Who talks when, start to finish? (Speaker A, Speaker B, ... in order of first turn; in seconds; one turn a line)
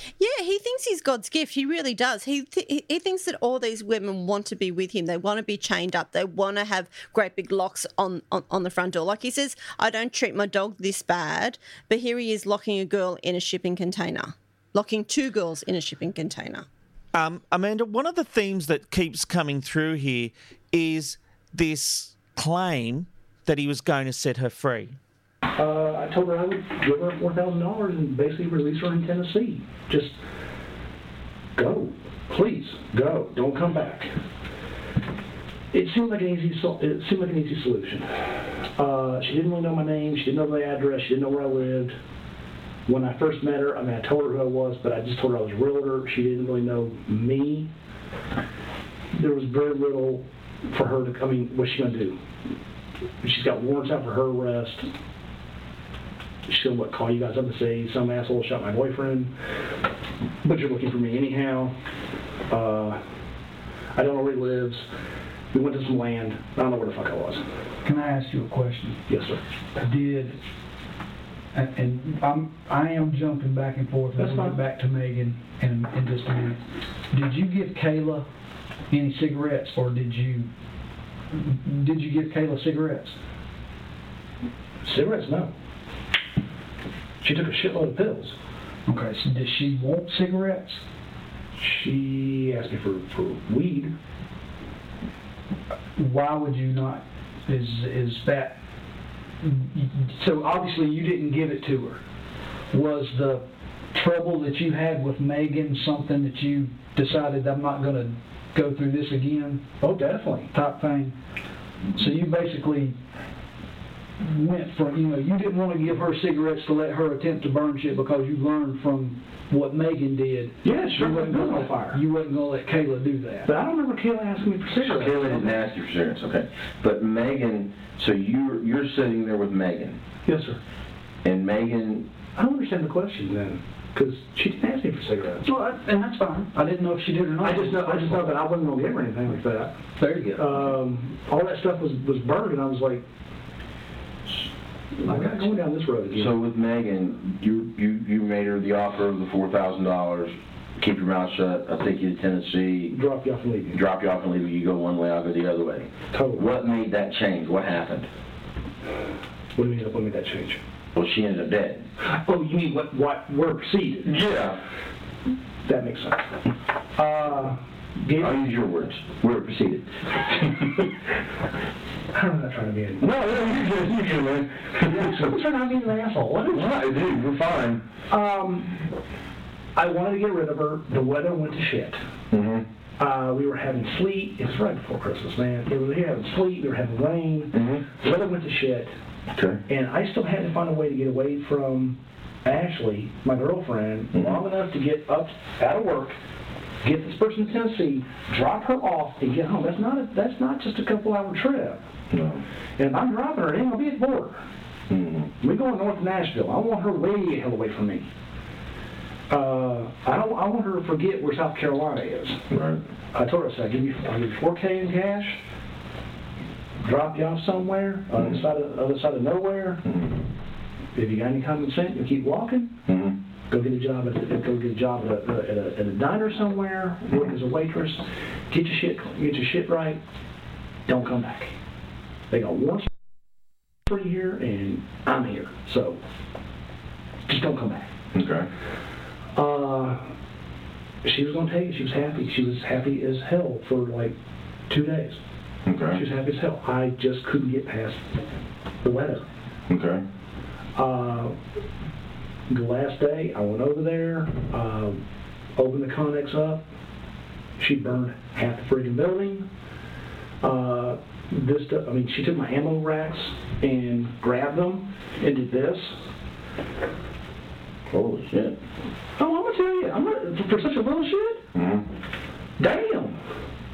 Speaker A: 0.2-16.6
Speaker B: 17.1-25.0
Speaker C: 25.6-30.2
Speaker C: 31.6-34.1
Speaker C: 35.7-42.0
Speaker C: 42.9-47.7
Speaker C: 49.1-52.2
Speaker C: 53.2-54.9
Speaker C: 56.5-59.3
Speaker C: 60.4-61.8
Speaker C: 62.5-63.0
Speaker C: 63.9-64.8
Speaker C: 65.5-67.4
Speaker D: 67.8-69.0
Speaker C: 69.1-69.4
Speaker D: 69.8-70.4
Speaker D: 71.5-76.6
Speaker C: 74.2-74.6
Speaker D: 77.1-78.2
Speaker D: 78.9-80.5
Speaker D: 81.3-83.2
Speaker C: 84.8-85.5
Speaker C: 87.2-88.3
Speaker D: 88.9-90.8
Speaker C: 91.5-93.9
Speaker D: 96.0-98.6
Speaker D: 99.4-102.0
Speaker D: 102.7-109.7
Speaker C: 109.8-110.5
Speaker D: 110.5-111.2
Speaker D: 112.0-113.0
Speaker D: 114.2-123.5
Speaker C: 120.6-122.0
Speaker C: 123.5-125.5
Speaker E: 124.8-130.0
Speaker C: 130.2-130.6
Speaker E: 131.2-132.1
Speaker C: 132.3-135.5
Speaker D: 135.4-138.3
Speaker C: 137.4-139.8
Speaker D: 140.0-140.6
Speaker C: 140.3-143.0
Speaker C: 145.0-146.3
Speaker D: 145.1-145.4
Speaker E: 146.1-153.0
Speaker C: 152.9-153.8
Speaker E: 153.7-158.1
Speaker C: 156.1-156.5
Speaker C: 159.6-160.6
Speaker E: 160.9-161.8
Speaker C: 162.1-164.2
Speaker E: 164.0-164.6
Speaker C: 165.6-166.4
Speaker C: 166.9-168.3
Speaker E: 168.2-170.7
Speaker C: 172.1-173.0
Speaker E: 173.0-175.3
Speaker C: 174.8-176.8
Speaker E: 176.5-177.8
Speaker C: 178.1-178.8
Speaker C: 179.7-182.0
Speaker E: 182.3-182.7
Speaker C: 183.0-188.9
Speaker E: 187.5-187.9
Speaker E: 189.3-189.6
Speaker C: 189.7-196.2
Speaker E: 194.1-194.4
Speaker C: 196.8-201.8
Speaker E: 202.1-202.4
Speaker C: 202.8-204.5
Speaker E: 204.9-205.3
Speaker C: 205.4-208.1
Speaker C: 209.3-212.4
Speaker E: 212.5-212.8
Speaker C: 213.1-215.4
Speaker C: 216.8-219.8
Speaker E: 218.2-218.4
Speaker E: 219.8-220.2
Speaker C: 220.9-222.8
Speaker E: 222.9-223.2
Speaker C: 223.5-230.0
Speaker C: 230.9-231.5
Speaker C: 232.3-232.9
Speaker C: 233.9-236.0
Speaker C: 237.3-237.9
Speaker E: 238.1-238.5
Speaker C: 239.3-240.1
Speaker C: 241.0-244.1
Speaker C: 244.7-245.2
Speaker E: 245.7-246.0
Speaker C: 245.9-248.2
Speaker C: 248.8-249.2
Speaker E: 249.7-250.0
Speaker C: 250.8-251.4
Speaker C: 252.5-255.0
Speaker C: 255.6-256.6
Speaker C: 257.6-259.5
Speaker C: 260.4-266.0
Speaker E: 267.9-268.6
Speaker C: 269.2-271.4
Speaker E: 271.5-271.9
Speaker C: 272.6-273.2